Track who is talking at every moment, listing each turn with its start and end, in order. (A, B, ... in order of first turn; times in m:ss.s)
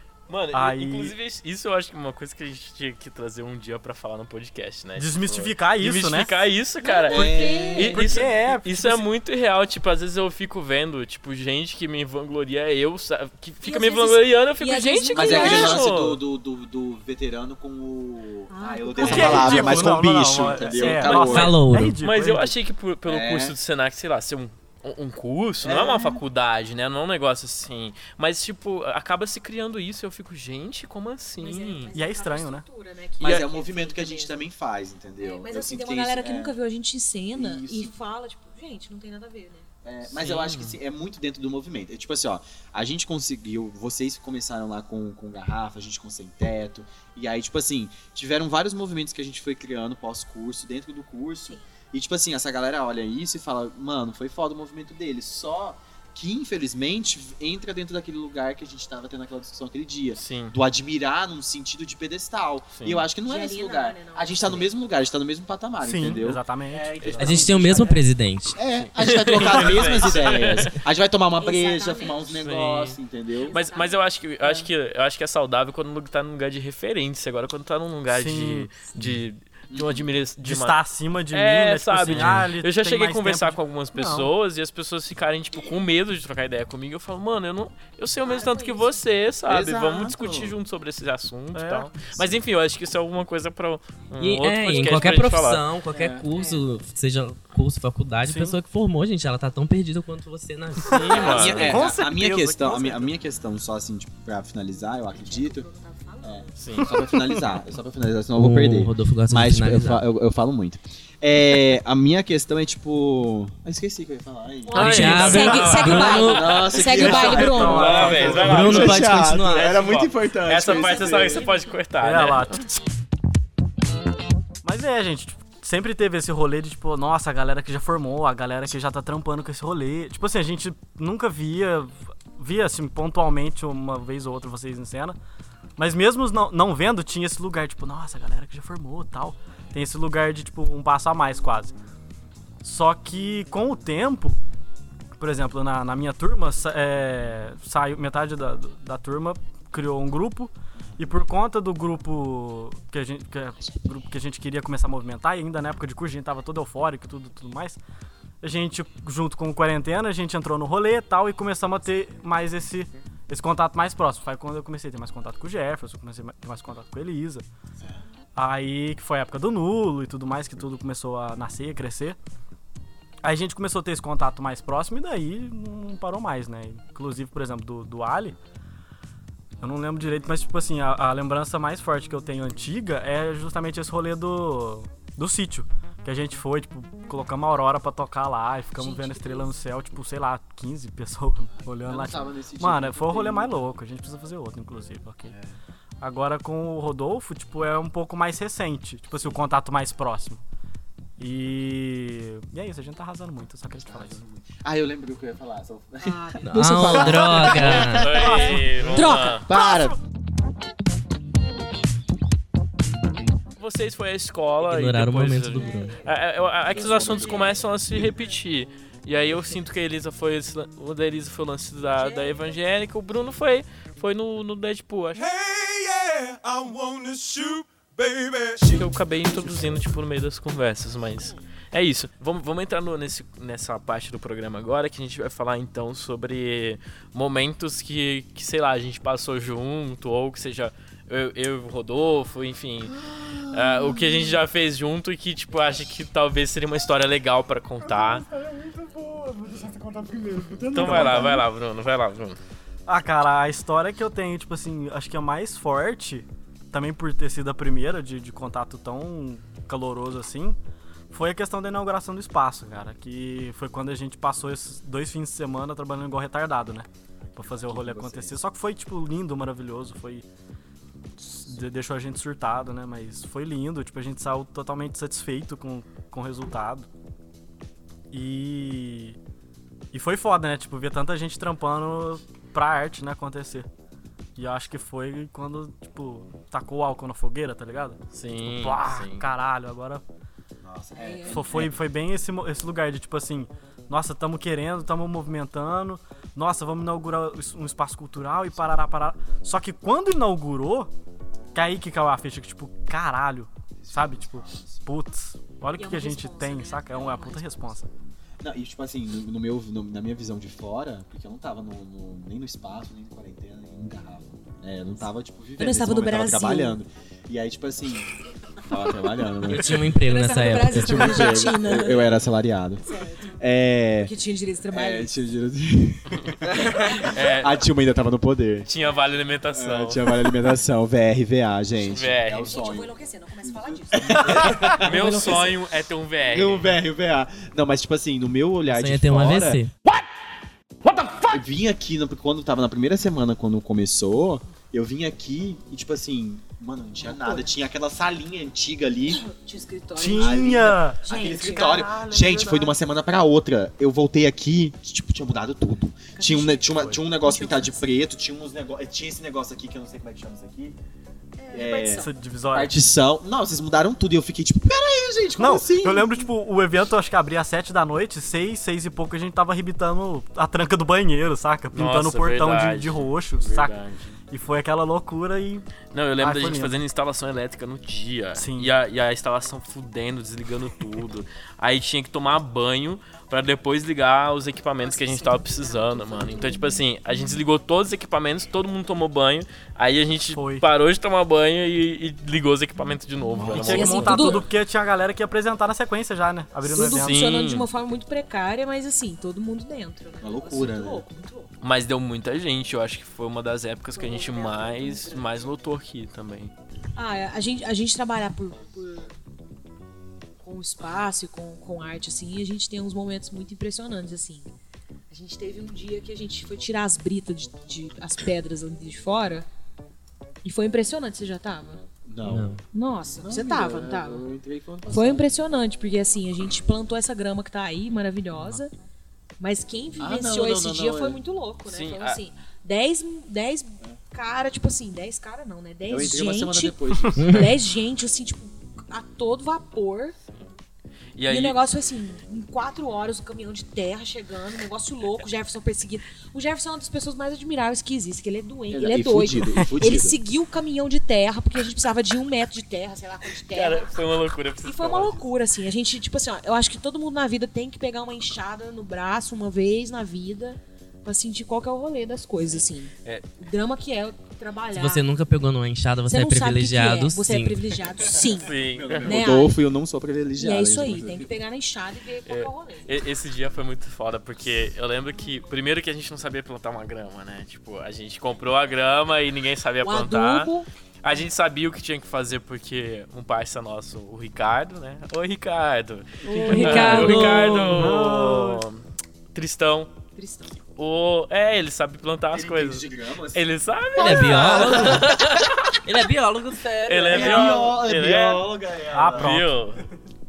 0:00.3-0:16.2 A
0:00.5-0:01.1 B
0:05.0-0:06.4 B
0:06.8-0:08.1 C
0:07.1-0:08.1 D
0:07.7-0:09.1 B
0:13.6-0:15.8 C
0:15.1-0:21.5 D
0:18.5-0:19.9 C
0:19.0-0:22.5 B
0:20.9-0:31.9 A
0:21.3-0:22.0 E
0:23.0-0:23.6 D
0:25.6-0:26.2 D
0:31.4-0:34.4 C
0:31.9-0:32.6 B
0:33.2-0:36.5 D
0:35.2-0:39.7 C
0:37.3-0:37.9 D
0:39.8-1:13.5 D
0:40.0-0:40.8 A
1:00.1-1:00.6 A
1:02.8-1:03.0 A
1:03.2-1:04.7 C
1:05.8-1:07.9 B
1:07.2-1:08.6 E
1:08.7-1:10.7 A
1:11.4-1:12.3 C
1:12.4-1:13.0 A
1:13.4-1:14.6 C
1:13.5-1:20.8 A
1:18.1-1:18.9 B
1:19.7-1:20.0 D
1:20.4-1:24.3 B
1:21.3-1:35.6 A
1:22.1-1:22.5 E
1:28.2-1:29.0 C
1:29.5-1:30.6 D
1:31.5-1:31.9 B
1:34.2-1:41.7 E
1:35.9-1:36.3 D
1:36.3-1:36.6 C
1:38.2-1:38.6 B
1:40.8-1:41.8 A
1:41.0-1:43.1 B
1:41.2-1:45.7 D
1:45.1-1:46.6 C
1:46.2-2:01.4 D
1:46.6-1:46.9 A
1:47.1-1:47.4 B
1:48.3-1:50.0 E
1:54.6-1:58.2 C
1:54.7-1:56.2 A
1:54.7-1:56.7 E
1:54.9-1:55.8 B
1:56.8-1:58.8 B
1:57.3-2:02.6 A
1:58.3-1:59.8 E
2:00.7-2:01.8 C
2:02.0-2:02.7 B
2:04.6-2:15.2 B
2:15.8-2:21.7 B
2:22.6-2:24.4 B
2:25.2-2:37.8 B
2:38.4-2:47.4 B
2:48.4-2:52.2 B
2:53.2-2:58.4 B
2:59.6-3:15.4 B
3:08.8-3:09.6 C
3:11.8-3:13.6 D
3:15.3-3:15.6 D
3:16.0-3:20.4 B
3:21.2-3:24.2 B
3:23.8-3:28.4 D
3:26.0-3:27.8 C
3:26.4-3:28.3 E
3:27.7-3:29.5 A
3:28.3-3:28.9 B
3:28.9-3:29.4 C
3:29.3-3:30.0 D
3:33.6-3:45.4 A
3:34.6-3:36.0 E
3:35.6-3:36.0 C
3:36.7-3:37.5 D
3:36.8-3:37.6 C
3:42.0-3:42.5 C
3:48.5-4:08.2 A
4:03.3-4:03.7 D
4:07.9-4:11.4 B
4:10.7-4:12.4 A
4:10.8-4:11.3 D
4:12.9-4:20.6 B
4:21.1-4:30.2 B
4:27.4-4:28.4 D
4:31.2-4:36.9 B
4:38.1-4:39.2 B
4:39.9-4:43.7 B
4:44.4-4:50.0 B
4:48.1-4:49.2 A
4:50.6-4:51.7 D
4:51.0-4:51.6 C
4:51.3-5:00.9 B
5:01.5-5:07.9 B
5:03.8-5:04.9 D
5:05.7-5:07.8 C
5:08.4-5:19.9 D
5:15.6-5:16.8 C
5:19.4-5:21.4 E
5:19.9-5:22.1 C
5:20.7-5:24.1 D
5:22.9-5:23.4 C
5:24.0-5:25.1 C
5:24.7-5:28.7 D
5:26.2-5:27.6 A
5:28.6-5:30.1 A
5:29.5-5:32.9 D
5:31.9-5:32.5 A
5:32.4-5:35.5 C
5:33.4-5:35.5 D
5:34.6-5:36.8 A
5:36.2-5:39.6 D
5:38.6-5:39.7 E
5:41.0-5:49.2 D
5:47.0-5:47.5 C
5:49.1-5:52.8 C
5:50.0-5:51.0 B
5:50.1-6:00.8 D
5:56.1-5:57.9 C
6:01.4-6:02.1 C
6:01.5-6:06.3 D
6:02.0-6:02.7 B
6:05.4-6:13.7 B
6:11.7-6:14.1 A
6:14.3-6:15.6 B
6:15.9-6:34.3 A
6:16.2-6:16.8 B
6:18.4-6:18.7 B
6:24.8-6:27.4 C
6:30.3-6:30.6 B
6:33.3-6:34.2 D
6:33.4-6:37.2 B
6:33.5-6:34.4 C
6:36.7-6:41.5 C
6:36.8-6:37.7 A
6:40.2-6:41.0 D
6:41.6-6:46.5 A
6:43.9-6:45.5 C
6:47.0-6:49.1 C
6:50.4-6:54.5 C
6:55.1-6:59.4 C
7:00.4-7:01.8 C
7:02.0-7:02.5 D
7:02.2-7:02.6 E
7:02.7-7:04.2 C
7:03.2-7:05.3 D
7:04.9-7:08.7 C
7:09.4-7:20.2 C
7:10.0-7:11.2 D
7:11.7-7:12.2 A
7:15.9-7:17.4 D
7:17.2-7:17.5 E
7:21.2-7:21.6 A
7:21.3-7:33.9 C
7:28.7-7:30.2 D
7:33.5-7:35.2 A
7:34.6-7:45.0 C
7:42.5-7:43.3 A
7:44.7-7:47.6 E
7:46.1-7:49.6 C
7:48.4-7:49.1 A
7:48.6-7:51.3 D
7:50.4-7:52.9 C
7:52.3-8:00.5 A
7:59.8-8:00.7 C
8:01.0-8:08.8 A
8:06.2-8:08.6 B
8:06.3-8:07.9 E
8:09.3-8:09.9 A
8:10.2-8:10.6 C
8:10.8-8:15.7 A
8:12.3-8:15.2 D
8:14.0-8:15.2 E
8:15.8-8:17.6 E
8:16.8-8:18.5 A
8:17.1-8:19.4 D
8:18.9-8:19.5 B
8:19.0-8:19.8 A